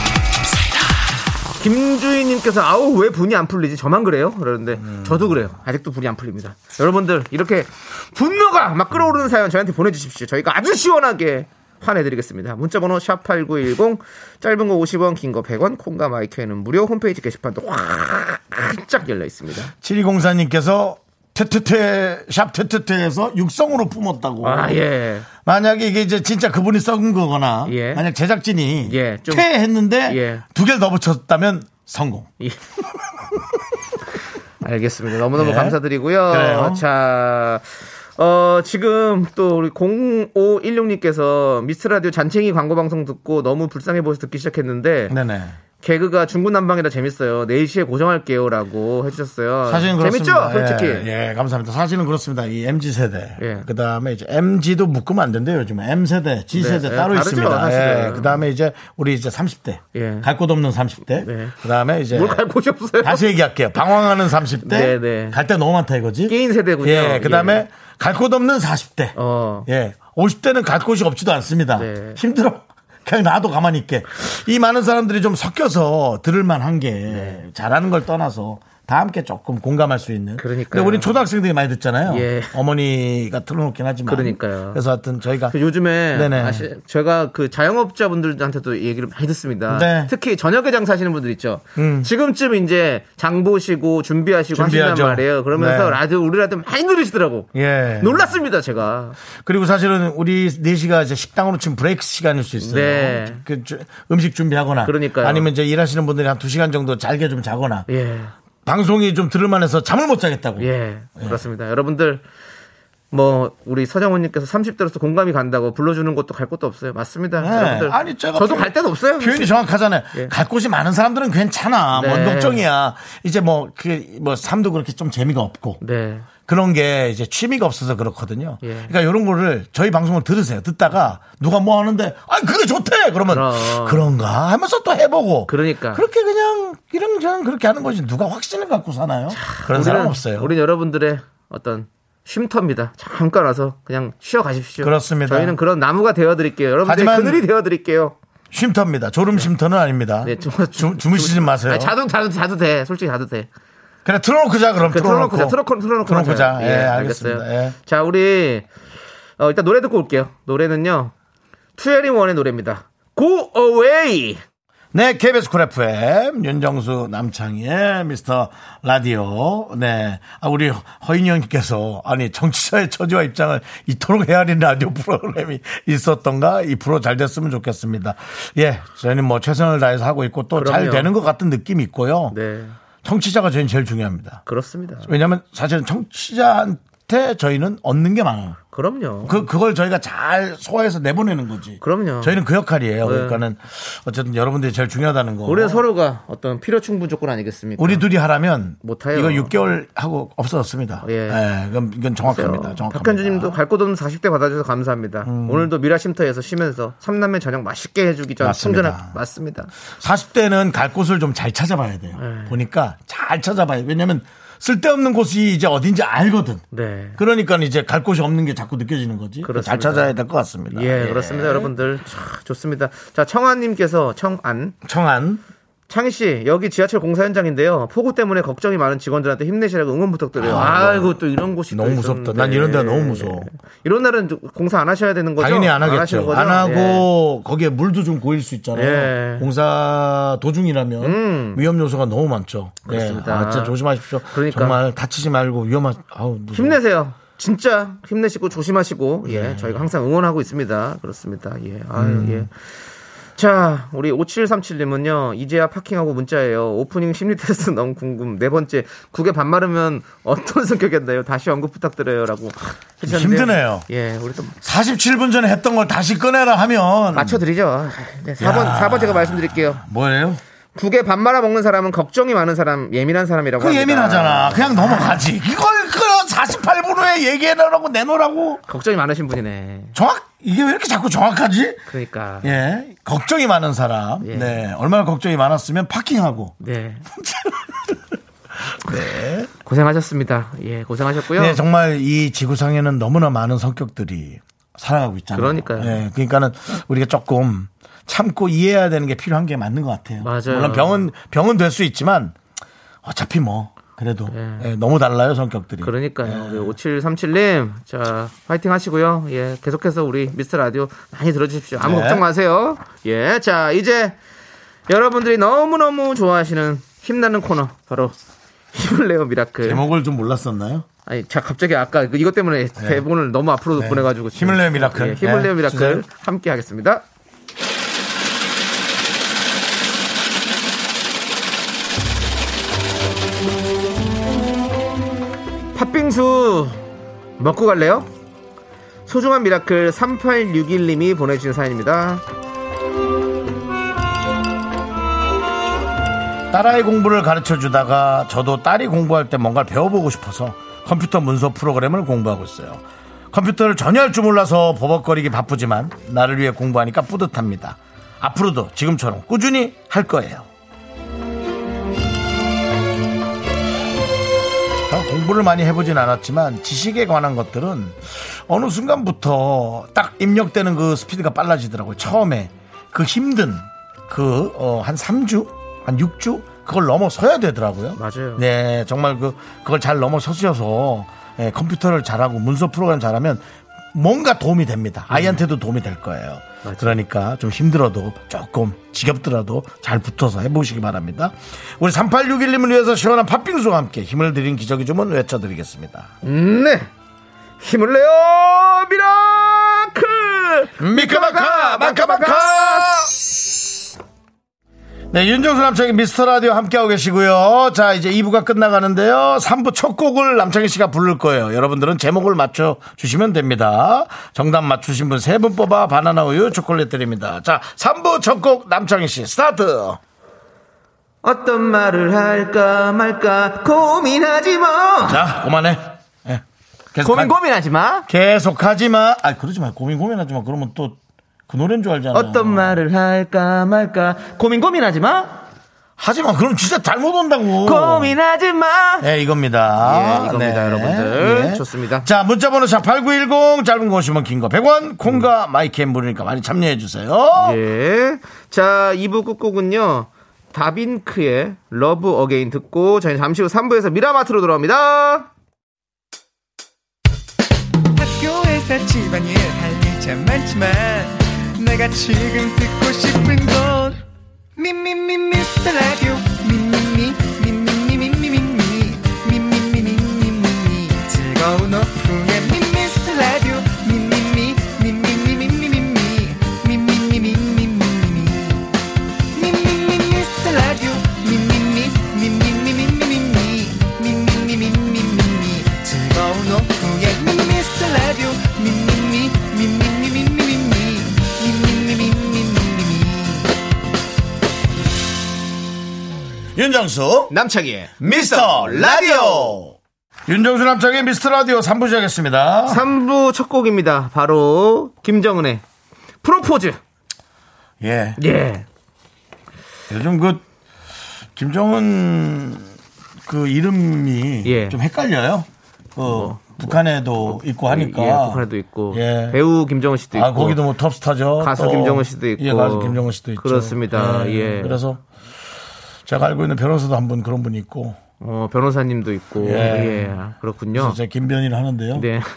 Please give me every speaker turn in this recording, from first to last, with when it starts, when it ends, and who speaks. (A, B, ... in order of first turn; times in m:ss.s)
0:01.6-0:19.7 A
0:04.8-0:05.3 B
0:19.8-0:24.8 B
0:24.4-0:25.3 A
0:25.4-0:32.3 B
0:27.7-0:28.0 A
0:28.8-0:29.5 A
0:30.1-0:30.4 A
0:34.6-0:45.2 A
0:35.3-0:36.8 B
0:45.1-0:45.6 B
0:45.8-0:51.1 A
0:49.7-1:02.4 B
0:53.4-0:53.7 A
0:56.5-0:58.4 A
0:59.9-1:00.3 A
1:01.2-1:01.6 A
1:02.1-1:03.2 A
1:03.0-1:25.6 B
1:04.6-1:05.4 A
1:06.3-1:07.6 A
1:09.2-1:09.7 A
1:11.8-1:12.2 A
1:17.1-1:17.4 A
1:20.4-1:21.2 A
1:22.1-1:22.5 A
1:24.1-1:24.8 A
1:25.5-1:37.5 A
1:26.1-1:26.7 B
1:29.7-1:30.1 B
1:31.8-1:32.1 B
1:34.5-1:36.0 B
1:37.5-1:38.3 B
1:38.0-1:39.2 A
1:39.4-1:47.9 B
1:42.6-1:43.4 A
1:44.8-1:45.5 A
1:47.9-1:48.3 A
1:48.7-1:51.4 B
1:50.6-1:52.2 A
1:53.1-1:59.5 A
1:57.4-2:05.8 B
2:02.0-2:02.6 A
2:05.8-2:06.3 A
2:06.5-2:20.5 B
2:08.6-2:08.9 A
2:13.3-2:14.1 A
2:15.5-2:16.0 A
2:19.3-2:28.2 A
2:24.8-2:25.6 B
2:26.8-2:27.4 B
2:28.5-2:31.9 B
2:30.2-2:33.5 A
2:34.0-2:37.8 B
2:34.8-2:38.7 A
2:39.4-2:41.1 A
2:41.8-2:44.4 A
2:44.9-3:02.4 B
3:00.6-3:01.1 A
3:02.3-3:02.8 A
3:03.0-3:04.4 B
3:04.5-3:05.1 A
3:05.0-3:08.6 B
3:08.7-3:09.4 A
3:09.2-3:15.8 B
3:11.8-3:12.4 A
3:13.0-3:13.4 A
3:15.5-3:18.0 A
3:17.8-3:23.6 B
3:18.8-3:19.6 A
3:21.0-3:21.4 A
3:22.2-3:29.7 A
3:25.2-3:25.7 B
3:28.4-3:29.2 B
3:30.0-3:36.6 B
3:32.2-3:32.6 A
3:36.7-3:37.2 A
3:37.2-3:41.7 B
3:39.4-3:40.1 A
3:40.7-3:44.8 A
3:44.8-3:45.4 B
3:45.9-3:57.1 A
3:50.4-3:51.2 B
3:51.7-3:53.5 B
3:55.4-4:06.8 B
3:58.7-3:59.5 A
4:01.0-4:01.6 A
4:02.8-4:03.8 A
4:04.3-4:04.8 A
4:06.5-4:12.6 A
4:09.2-4:09.9 B
4:12.0-4:12.5 B
4:13.4-4:24.6 A
4:23.0-4:23.9 B
4:24.6-4:27.4 B
4:27.1-4:29.8 A
4:28.4-4:30.4 B
4:30.8-4:35.2 A
4:33.6-4:38.6 B
4:38.7-4:40.0 A
4:40.0-4:41.8 B
4:41.9-4:42.6 A
4:42.4-4:46.6 B
4:44.2-4:44.6 A
4:46.6-4:47.1 A
4:47.1-4:48.0 B
4:48.7-4:49.5 B
4:49.6-4:51.6 A
4:51.4-5:02.4 B
4:55.3-4:56.0 A
5:00.2-5:01.0 A
5:03.0-5:06.8 B
5:04.3-5:04.7 A
5:05.8-5:14.2 A
5:11.8-5:12.2 B
5:14.9-5:18.2 A
5:18.7-5:19.8 A
5:19.6-5:20.9 B
5:21.1-5:27.0 A
5:22.8-5:23.0 B
5:23.8-5:26.0 B
5:35.8-5:36.8 A
5:37.4-5:38.1 A
5:39.1-5:42.2 A
5:46.5-6:00.5 B
6:04.9-6:36.1 B
6:18.0-6:18.4 A
6:25.1-6:25.4 A
6:26.6-6:27.0 A
6:36.2-6:36.9 A
6:37.6-6:43.1 A
6:40.8-6:43.1 B
6:45.1-7:00.0 B
7:01.2-7:05.3 A
7:05.1-7:06.4 B
7:06.9-7:07.3 B
7:07.0-7:08.1 A
7:08.1-7:12.8 B
7:12.1-7:15.4 A
7:16.0-7:18.2 B
7:17.6-7:19.1 A
7:19.0-7:27.6 B
7:19.8-7:22.1 A
7:27.4-7:35.3 A
7:38.0-7:44.0 C
7:44.6-7:58.7 C
7:59.3-8:13.5 C
8:16.6-8:17.3 B
8:17.3-8:19.6 A
8:18.0-8:19.8 B
8:20.3-8:22.8 B
8:22.7-8:25.6 A
8:26.2-8:26.8 A
8:27.8-8:28.2 B
8:28.2-8:28.7 A
8:29.9-8:30.4 B
8:31.4-8:32.7 B
8:33.2-8:39.4 B
8:34.4-8:34.8 A
8:36.0-8:40.6 A
8:40.1-8:45.0 B
8:41.4-8:44.8 A
8:46.1-8:48.0 B
8:48.2-8:51.0 A
8:49.4-8:50.2 B
8:50.7-8:52.1 B
8:51.9-8:52.3 A